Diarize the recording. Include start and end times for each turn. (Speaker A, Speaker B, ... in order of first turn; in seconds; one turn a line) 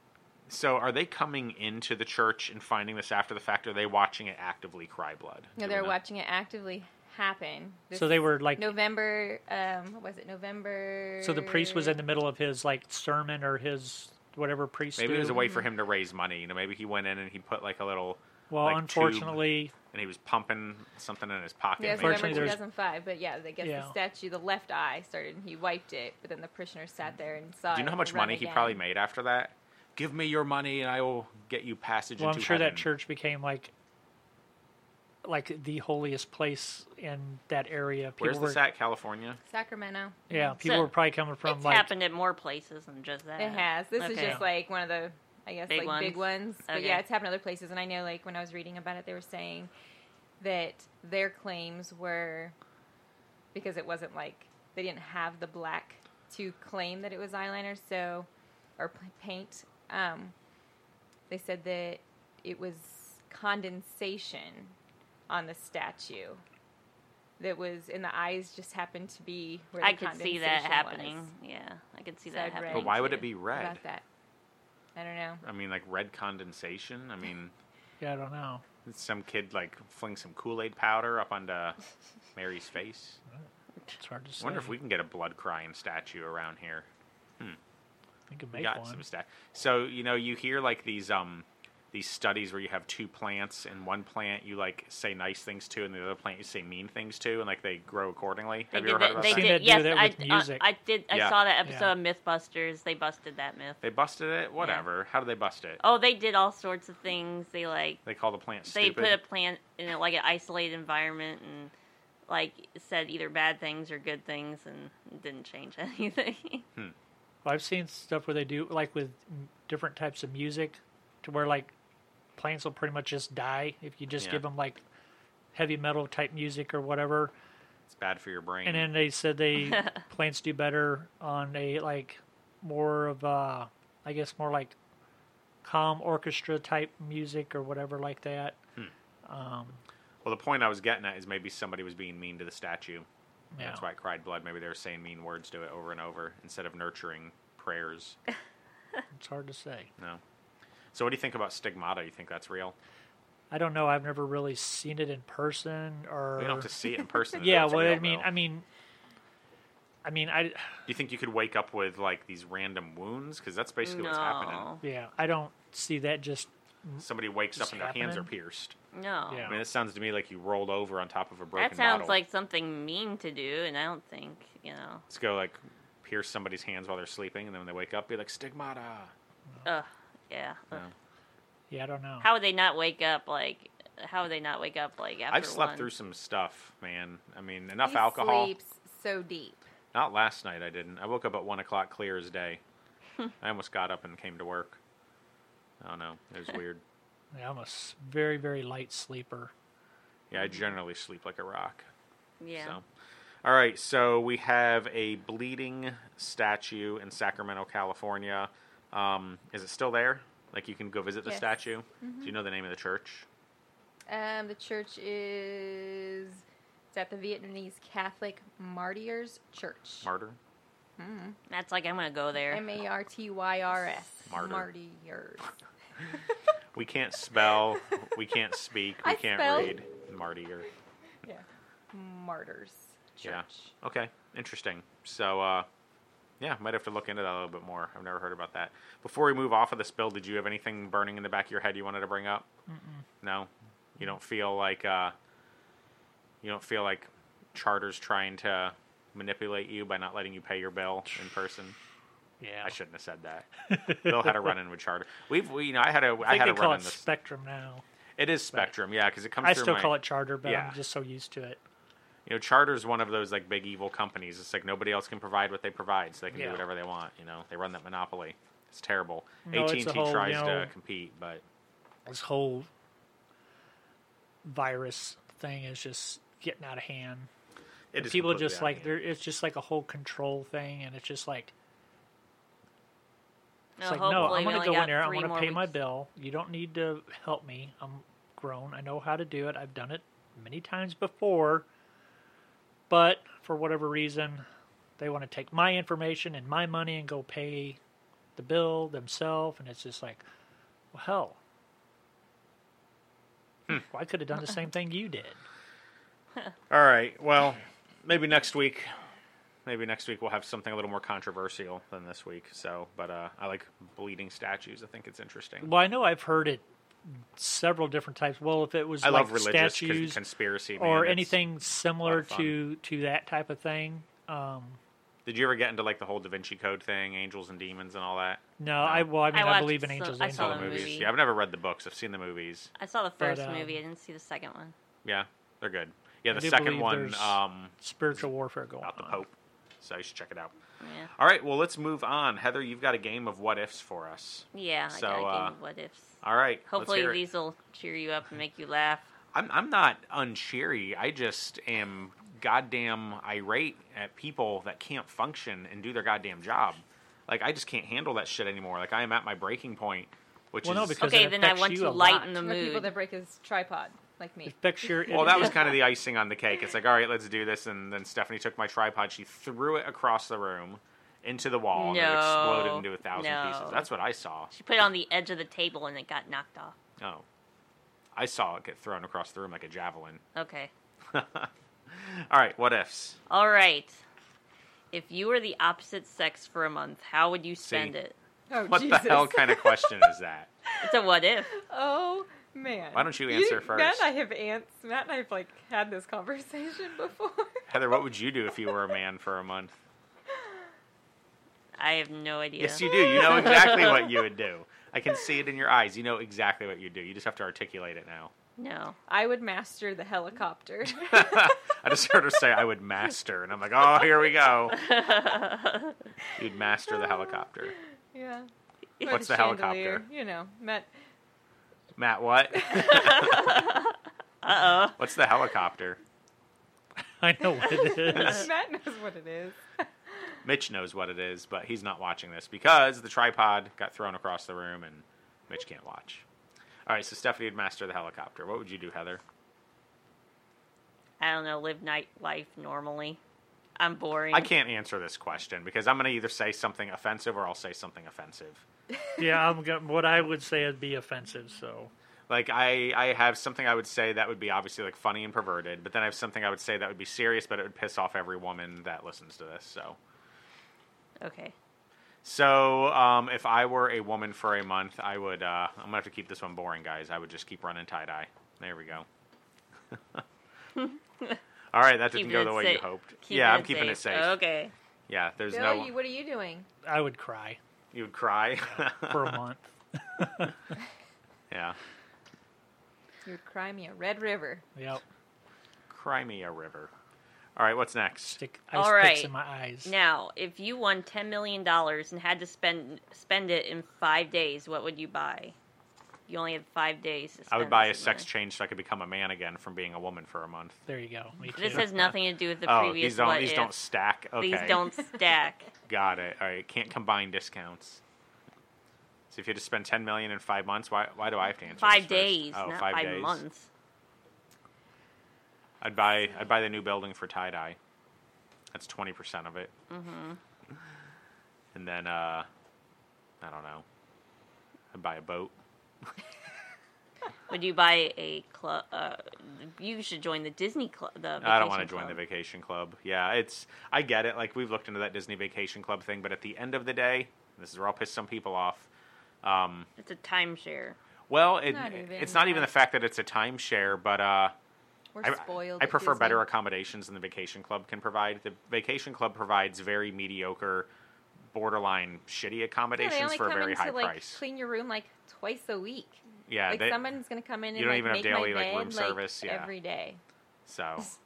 Speaker A: 0.5-6.0
Speaker B: 5.6-11.9
Speaker C: 7.9-8.8
Speaker C: 11.2-15.5
Speaker A: 15.0-22.6
Speaker C: 18.5-19.7
Speaker B: 21.8-28.8
Speaker C: 21.9-22.6
Speaker C: 23.6-23.9
Speaker A: 27.7-32.9
Speaker C: 32.2-33.7
Speaker C: 35.2-38.6
Speaker A: 38.2-39.4
Speaker B: 39.5-40.5
Speaker C: 40.3-41.9
Speaker D: 40.6-40.9
Speaker D: 41.5-44.4
Speaker B: 43.4-49.7
Speaker C: 44.2-44.4
Speaker D: 45.7-47.0
Speaker B: 50.4-52.5
Speaker B: 53.5-60.4
Speaker B: 61.3-64.8
Speaker B: 65.3-66.4
Speaker B: 67.4-71.3
Speaker D: 69.8-73.3
Speaker B: 72.3-74.0
Speaker A: 72.7-73.8
Speaker B: 75.0-75.4
Speaker A: 75.4-77.5
Speaker C: 78.0-78.6
Speaker A: 78.8-81.8
Speaker A: 82.3-83.2
Speaker C: 83.3-84.8
Speaker A: 84.4-86.9
Speaker C: 88.3-89.0
Speaker A: 88.5-99.6
Speaker D: 98.7-103.8
Speaker C: 99.2-100.7
Speaker A: 101.1-101.4
Speaker C: 101.7-101.9
Speaker A: 103.8-105.8
Speaker D: 104.6-104.8
Speaker D: 105.8-108.0
Speaker A: 108.0-109.2
Speaker D: 108.7-111.7
Speaker D: 112.3-116.7
Speaker C: 117.4-121.7
Speaker C: 122.4-124.8
Speaker A: 124.2-124.4
Speaker C: 125.5-127.3
Speaker A: 127.9-128.9
Speaker C: 128.7-134.8
Speaker C: 135.6-138.6
Speaker C: 139.2-139.8
Speaker A: 140.2-143.1
Speaker C: 143.5-143.8
Speaker A: 143.6-148.2
Speaker C: 149.1-149.9
Speaker A: 150.9-152.8
Speaker C: 153.5-156.7
Speaker A: 156.4-158.3
Speaker C: 157.3-158.7
Speaker C: 160.0-160.8
Speaker A: 160.9-164.7
Speaker D: 163.8-164.8
Speaker C: 164.8-168.3
Speaker A: 167.0-168.8
Speaker D: 168.9-169.5
Speaker C: 169.3-169.6
Speaker A: 169.5-172.2
Speaker D: 171.6-175.1
Speaker A: 175.1-179.1
Speaker D: 179.7-180.8
Speaker C: 181.7-182.3
Speaker D: 182.2-185.9
Speaker A: 185.3-188.5
Speaker B: 187.8-189.7
Speaker A: 189.9-192.6
Speaker A: 193.4-194.8
Speaker A: 195.8-196.8
Speaker C: 197.3-199.5
Speaker A: 200.3-201.9
Speaker D: 202.4-202.8
Speaker A: 202.6-202.8
Speaker A: 203.4-213.3
Speaker B: 212.0-212.3
Speaker B: 214.1-220.1
Speaker A: 220.0-220.4
Speaker B: 221.0-221.4
Speaker D: 221.5-222.7
Speaker B: 222.5-225.6
Speaker A: 224.3-224.7
Speaker A: 226.8-230.7
Speaker B: 229.0-229.8
Speaker B: 231.2-233.7
Speaker A: 233.2-235.7
Speaker A: 236.4-242.5
Speaker C: 242.7-243.1
Speaker A: 243.2-245.2
Speaker A: 246.4-251.8
Speaker C: 252.4-252.8
Speaker A: 252.6-257.1
Speaker C: 253.7-254.5
Speaker C: 256.2-257.8
Speaker A: 258.2-260.8
Speaker C: 259.4-261.6
Speaker A: 262.3-271.4
Speaker C: 266.3-266.6
Speaker C: 269.5-270.7
Speaker C: 272.1-272.7
Speaker C: 274.4-277.3
Speaker A: 277.9-279.0
Speaker C: 278.0-281.5
Speaker D: 283.8-285.7
Speaker C: 283.8-291.7
Speaker C: 292.9-294.4
Speaker C: 295.0-297.8
Speaker C: 298.4-300.2
Speaker C: 300.9-301.4
Speaker C: 303.7-305.4
Speaker A: 306.7-308.9
Speaker A: 309.7-315.7
Speaker C: 315.6-320.2
Speaker A: 319.0-321.4
Speaker C: 320.8-324.8
Speaker A: 322.0-322.6
Speaker A: 325.3-329.1
Speaker C: 328.6-331.1
Speaker D: 329.3-331.1
Speaker A: 330.3-332.7
Speaker D: 332.8-334.7
Speaker C: 333.2-333.8
Speaker A: 335.1-338.2
Speaker C: 336.3-339.2
Speaker A: 338.8-340.5
Speaker D: 340.8-341.1
Speaker A: 341.1-345.6
Speaker D: 344.5-349.1
Speaker A: 346.2-347.2
Speaker A: 349.3-361.2
Speaker C: 360.6-362.3
Speaker D: 361.0-362.9
Speaker B: 362.3-365.5
Speaker C: 364.5-365.7
Speaker A: 365.1-374.5
Speaker D: 371.7-373.9
Speaker D: 374.5-376.8
Speaker A: 377.0-377.2
Speaker A: 378.1-380.2
Speaker D: 380.4-380.7
Speaker A: 381.1-383.2
Speaker D: 383.3-384.0
Speaker D: 384.9-388.1
Speaker A: 387.6-387.9
Speaker B: 388.5-390.1
Speaker A: 388.7-390.5
Speaker D: 390.8-391.5
Speaker B: 391.6-397.7
Speaker A: 392.9-394.1
Speaker A: 397.7-399.7
Speaker D: 401.8-404.1
Speaker A: 402.6-408.3
Speaker B: 403.1-403.8
Speaker D: 408.6-409.0
Speaker B: 409.1-411.6
Speaker A: 410.9-414.9
Speaker D: 414.7-415.9
Speaker A: 416.4-417.8
Speaker B: 418.1-418.5
Speaker B: 419.0-420.9
Speaker A: 419.1-420.1
Speaker A: 422.0-423.7
Speaker D: 422.7-425.0
Speaker B: 422.8-423.4
Speaker A: 425.0-426.0
Speaker C: 427.2-428.5
Speaker B: 427.6-429.9
Speaker A: 430.4-436.2
Speaker A: 436.9-439.2
Speaker D: 441.2-443.2
Speaker D: 443.8-444.5
Speaker A: 444.3-448.6
Speaker C: 449.2-451.9
Speaker A: 452.3-460.0
Speaker D: 461.2-461.5
Speaker A: 462.2-469.1
Speaker A: 469.9-470.2
Speaker D: 470.8-471.4
Speaker A: 471.7-474.4
Speaker D: 472.1-474.7
Speaker A: 475.1-475.9
Speaker B: 475.5-476.7
Speaker C: 476.8-477.6
Speaker A: 477.9-479.4
Speaker C: 478.7-480.6
Speaker A: 481.5-481.8
Speaker B: 483.2-484.6
Speaker C: 484.8-485.0
Speaker A: 485.9-486.9
Speaker A: 487.6-488.4
Speaker C: 488.3-489.9
Speaker D: 488.7-489.3
Speaker D: 489.8-495.6
Speaker D: 496.3-498.3
Speaker A: 497.5-500.8
Speaker C: 500.9-502.0
Speaker D: 501.6-503.8
Speaker A: 501.6-502.1
Speaker A: 502.6-504.8
Speaker D: 504.4-505.7
Speaker A: 505.9-508.0
Speaker A: 509.3-513.4
Speaker D: 511.8-513.7
Speaker A: 515.8-517.8
Speaker A: 518.7-519.7
Speaker D: 519.9-520.4
Speaker A: 521.7-522.5
Speaker A: 523.4-523.9
Speaker A: 524.9-525.5
Speaker D: 527.5-532.2
Speaker A: 531.4-538.9
Speaker A: 539.4-539.9
Speaker D: 540.0-541.0
Speaker A: 541.3-544.5
Speaker B: 541.7-542.7
Speaker B: 545.1-546.5
Speaker A: 545.2-550.9
Speaker A: 551.5-554.4
Speaker B: 553.0-560.2
Speaker A: 556.5-557.0
Speaker A: 557.7-559.7
Speaker A: 560.7-561.1